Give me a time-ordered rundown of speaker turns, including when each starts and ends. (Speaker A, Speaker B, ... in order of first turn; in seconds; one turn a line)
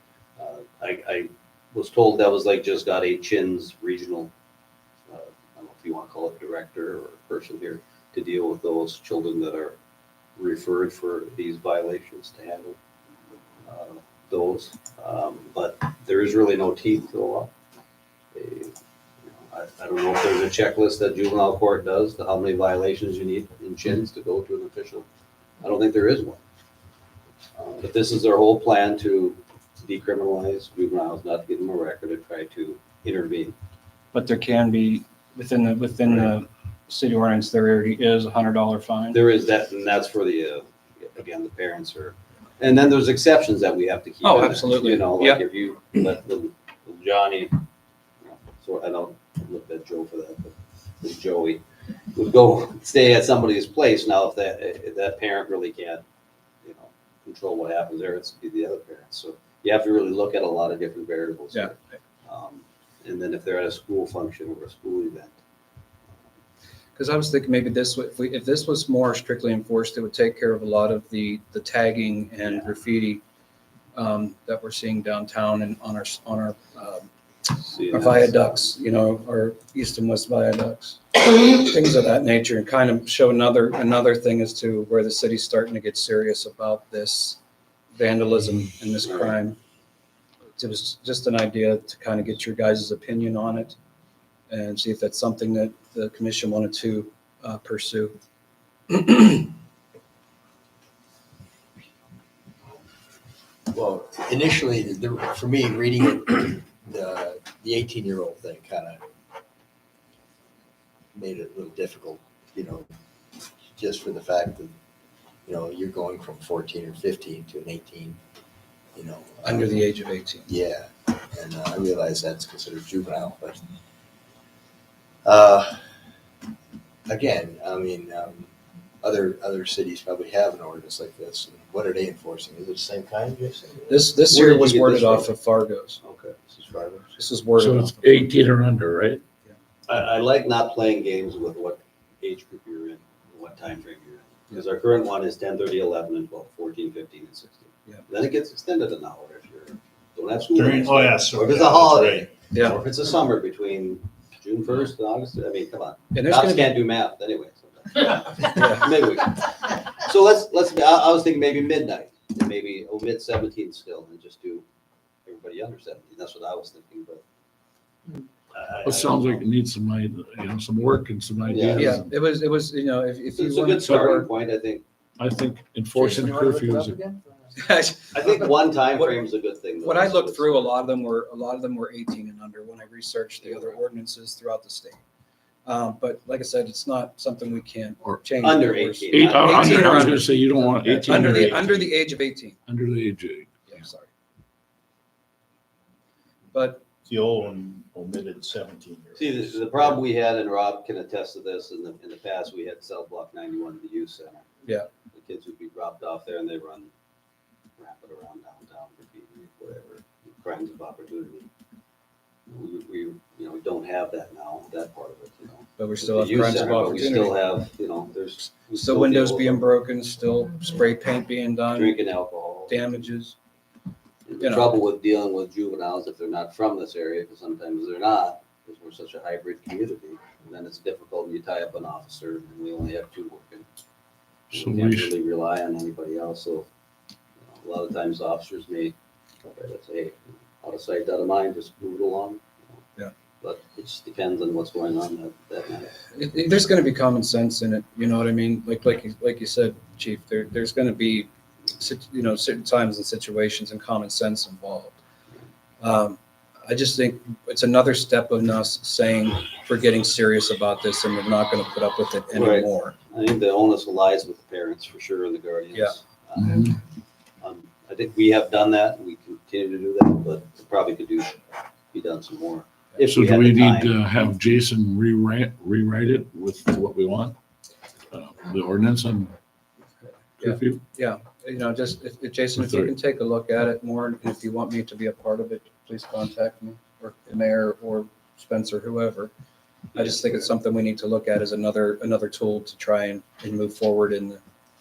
Speaker A: 0.4-4.3
Speaker A: 5.1-9.8
Speaker A: 10.4-12.8
Speaker A: 13.7-17.5
Speaker A: 18.3-18.8
Speaker A: 19.4-25.1
Speaker A: 25.6-26.4
Speaker A: 27.6-33.5
Speaker B: 34.1-39.2
Speaker A: 39.1-47.6
Speaker B: 44.2-45.4
Speaker A: 48.2-56.0
Speaker A: 56.6-65.4
Speaker B: 61.5-61.8
Speaker B: 67.0-73.2
Speaker B: 74.0-77.1
Speaker A: 77.6-78.7
Speaker B: 77.9-87.4
Speaker B: 88.0-89.6
Speaker A: 89.1-89.3
Speaker B: 90.6-93.8
Speaker B: 94.5-98.2
Speaker B: 98.9-99.5
Speaker C: 103.7-109.0
Speaker C: 111.1-112.9
Speaker C: 113.8-114.7
Speaker C: 115.5-118.2
Speaker C: 118.9-119.9
Speaker B: 119.4-120.5
Speaker C: 120.5-123.6
Speaker C: 125.2-125.8
Speaker C: 127.1-134.1
Speaker B: 133.9-136.0
Speaker A: 134.3-135.3
Speaker A: 136.0-137.2
Speaker B: 137.2-138.3
Speaker D: 137.6-139.2
Speaker A: 139.9-164.7
Speaker E: 150.5-152.4
Speaker B: 152.5-152.8
Speaker B: 156.1-156.8
Speaker B: 158.6-158.9
Speaker A: 165.3-167.2
Speaker A: 168.5-169.4
Speaker D: 168.8-172.2
Speaker A: 171.5-172.0
Speaker B: 171.8-174.3
Speaker A: 173.4-174.8
Speaker D: 173.8-174.1
Speaker D: 175.2-177.0
Speaker B: 176.0-178.5
Speaker A: 178.1-180.8
Speaker B: 179.8-185.0
Speaker A: 183.4-183.8
Speaker B: 185.7-192.6
Speaker A: 188.4-190.3
Speaker D: 189.1-191.9
Speaker E: 191.2-191.9
Speaker D: 192.7-193.7
Speaker B: 193.7-194.1
Speaker B: 196.5-196.8
Speaker E: 197.1-200.0
Speaker A: 199.2-204.4
Speaker A: 205.1-206.9
Speaker A: 207.8-211.5
Speaker A: 212.5-219.7
Speaker B: 215.8-217.4
Speaker B: 218.6-222.0
Speaker A: 221.8-222.8
Speaker B: 222.7-223.4
Speaker A: 224.3-233.7
Speaker B: 224.4-224.7
Speaker D: 234.5-235.1
Speaker A: 234.5-236.7
Speaker A: 237.4-242.8
Speaker A: 243.4-246.0
Speaker B: 246.1-255.0
Speaker B: 255.8-262.9
Speaker A: 262.3-266.7
Speaker D: 266.4-266.8
Speaker A: 267.4-273.9
Speaker D: 273.1-277.4
Speaker D: 278.1-279.3
Speaker D: 280.4-280.8
Speaker B: 280.4-289.3
Speaker D: 282.6-282.9
Speaker B: 289.9-294.4
Speaker A: 289.9-290.5